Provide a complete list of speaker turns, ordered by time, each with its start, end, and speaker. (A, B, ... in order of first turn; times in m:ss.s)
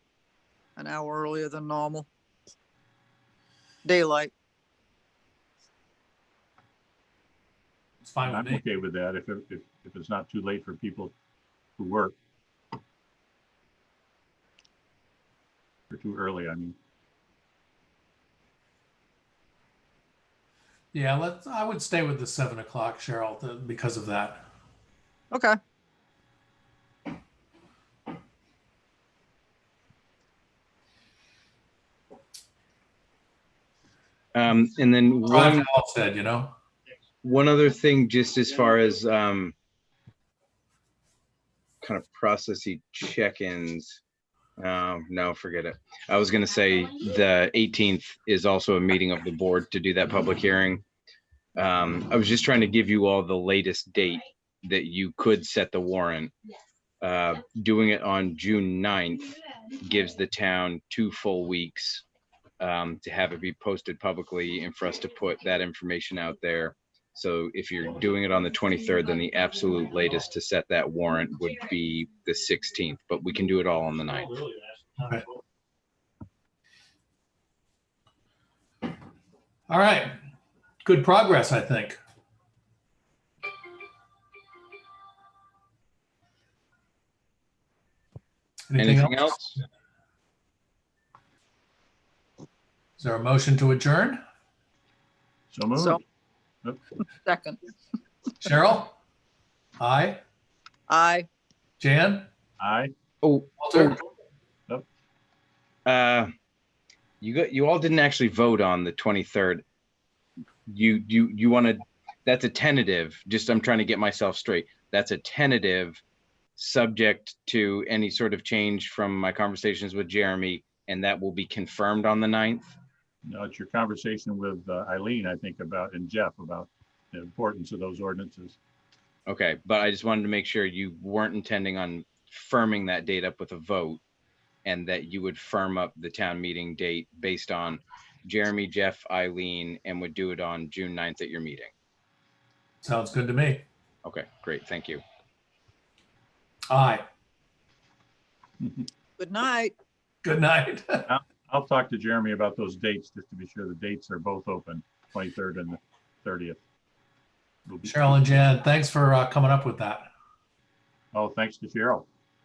0:00.8-0:02.1 A
0:03.8-0:04.3 A
0:08.0-0:08.6 B
0:08.2-0:11.1 C
0:11.8-0:12.2 C
0:15.9-0:16.8 C
0:20.9-0:24.4 B
0:25.3-0:25.6 A
0:34.3-0:35.7 D
0:35.3-0:36.5 B
0:37.2-0:39.6 D
0:41.8-0:43.9 D
0:44.6-0:50.8 D
0:51.6-0:56.3 D
0:57.0-1:02.0 D
1:02.6-1:14.4 D
1:15.0-1:15.3 B
1:19.7-1:20.2 B
1:20.8-1:22.0 B
1:28.7-1:29.4 B
1:28.8-1:29.6 D
1:33.0-1:34.2 B
1:35.5-1:36.0 C
1:37.2-1:37.6 A
1:38.4-1:39.0 B
1:39.8-1:40.2 B
1:40.9-1:41.3 A
1:41.8-1:42.3 B
1:42.6-1:42.9 C
1:43.2-1:44.0 D
1:43.6-1:44.0 B
1:45.9-1:46.3 D
1:47.2-1:49.6 D
1:50.7-1:56.0 D
1:56.6-2:02.7 D
2:03.2-2:08.6 C
2:09.3-2:14.0 D
2:14.6-2:21.7 D
2:22.8-2:23.6 B
2:24.0-2:25.0 D
2:26.7-2:27.0 B
2:29.2-2:29.7 A
2:30.2-2:31.1 B
2:31.1-2:36.6 C
2:37.7-2:38.2 C
2:37.8-2:40.1 B
2:41.1-2:42.1 C